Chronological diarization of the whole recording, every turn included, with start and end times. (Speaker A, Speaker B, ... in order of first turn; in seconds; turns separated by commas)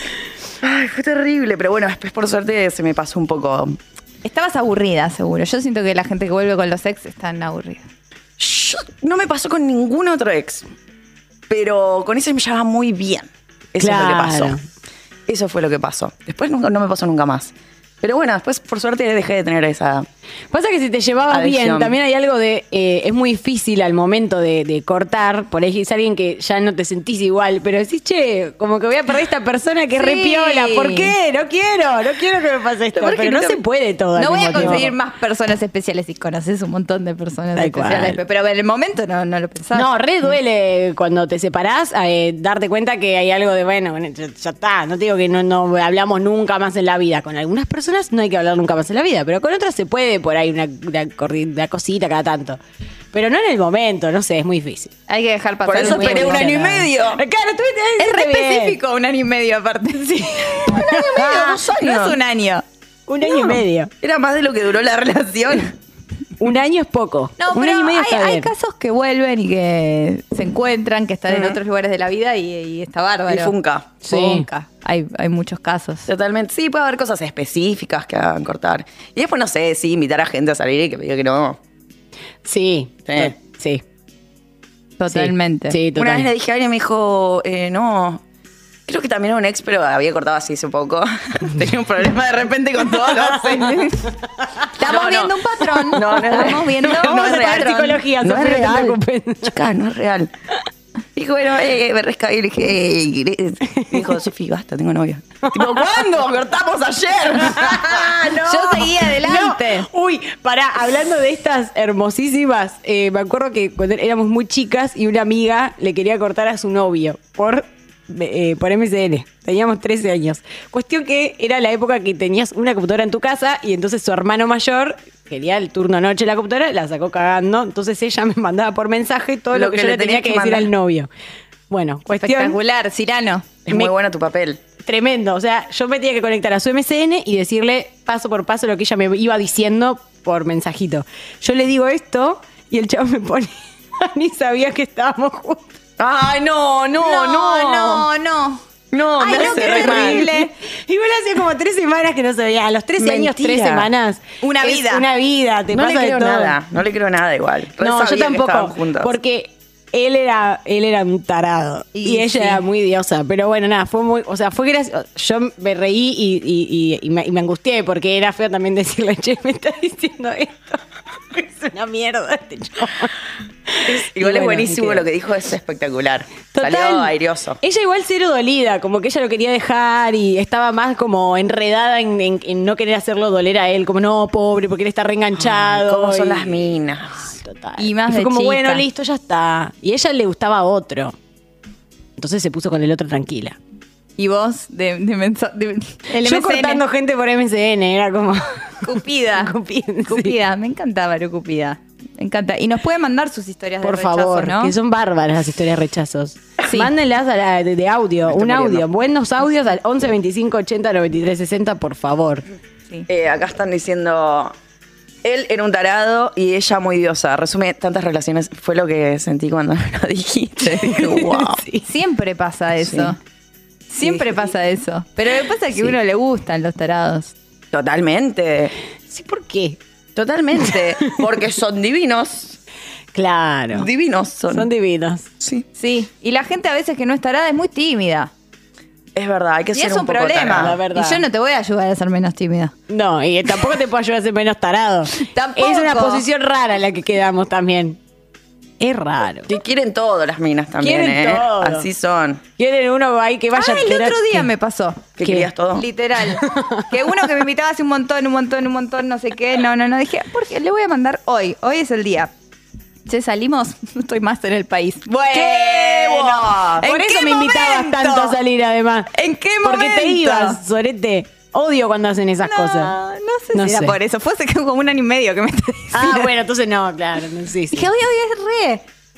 Speaker A: 0.6-3.8, Speaker B: 4.2-7.9, Speaker A: 8.4-10.7, Speaker A: 11.5-14.6, Speaker C: 13.8-14.6, Speaker A: 15.3-20.1, Speaker C: 20.5-34.9, Speaker A: 21.3-22.0, Speaker B: 29.9-31.1, Speaker A: 32.9-33.6, Speaker B: 34.1-40.4, Speaker A: 34.5-34.9, Speaker C: 37.5-38.2, Speaker C: 39.7-52.6, Speaker C: 53.1-54.9, Speaker B: 55.1-56.9, Speaker A: 55.6-57.2, Speaker C: 55.8-58.8, Speaker B: 58.0-62.6, Speaker A: 60.9-62.2, Speaker C: 63.1-63.9, Speaker A: 64.0-65.8, Speaker C: 66.4-68.5, Speaker B: 67.4-73.5, Speaker A: 71.3-71.6, Speaker A: 73.3-73.9, Speaker C: 74.0-74.5, Speaker B: 74.0-76.1, Speaker A: 76.1-81.6, Speaker C: 82.4-83.8, Speaker A: 83.1-83.3, Speaker B: 85.0-85.8, Speaker C: 85.1-86.3, Speaker A: 85.9-88.2, Speaker A: 88.9-94.1, Speaker B: 94.8-97.7, Speaker A: 94.8-100.3, Speaker C: 96.0-96.3, Speaker C: 96.9-99.5, Speaker A: 101.2-108.9, Speaker C: 107.5-108.0, Speaker B: 108.5-109.9, Speaker C: 109.2-131.1, Speaker A: 129.5-130.7, Speaker C: 131.7-132.6, Speaker B: 132.2-133.7, Speaker A: 133.7-134.6, Speaker C: 134.8-145.7, Speaker A: 146.0-148.1, Speaker B: 147.0-148.6, Speaker A: 148.9-150.3, Speaker B: 149.2-150.5, Speaker C: 149.3-156.5, Speaker A: 153.0-153.9, Speaker B: 154.4-155.0, Speaker A: 155.7-159.1, Speaker C: 157.8-170.8, Speaker B: 161.9-162.6, Speaker C: 171.3-173.1, Speaker C: 173.7-175.0, Speaker A: 173.8-177.6, Speaker C: 176.5-186.5, Speaker A: 185.4-187.3, Speaker C: 187.4-191.2, Speaker B: 187.8-188.8, Speaker C: 192.2-193.6, Speaker B: 194.2-196.8, Speaker C: 196.2-198.6, Speaker B: 198.8-199.5, Speaker C: 199.4-200.3, Speaker B: 200.0-204.7, Speaker C: 203.8-212.4, Speaker B: 206.6-206.9, Speaker A: 208.3-208.9, Speaker A: 213.1-214.5, Speaker A: 215.2-221.6, Speaker C: 220.9-221.8, Speaker B: 221.8-223.2, Speaker A: 222.8-223.1, Speaker B: 223.9-227.3, Speaker C: 224.1-224.4, Speaker A: 227.7-228.7, Speaker C: 229.1-229.8, Speaker A: 230.2-232.6, Speaker C: 233.1-233.9, Speaker A: 233.7-234.7, Speaker C: 234.5-235.3, Speaker A: 235.4-235.7, Speaker B: 235.8-238.3, Speaker A: 239.1-240.8, Speaker B: 239.7-242.7, Speaker C: 240.6-241.2, Speaker C: 242.9-248.0, Speaker B: 245.2-246.2, Speaker C: 248.8-249.5, Speaker A: 249.5-252.4, Speaker C: 250.8-251.9, Speaker C: 252.6-254.5, Speaker B: 253.5-255.1, Speaker A: 255.2-255.8, Speaker C: 255.2-255.5, Speaker B: 255.7-262.3, Speaker C: 256.3-256.8, Speaker B: 263.1-268.4, Speaker A: 265.3-266.9, Speaker C: 266.8-269.1, Speaker B: 269.1-270.6, Speaker C: 269.6-272.9, Speaker B: 272.4-276.3, Speaker C: 273.5-274.0, Speaker C: 275.9-277.9, Speaker B: 277.7-278.8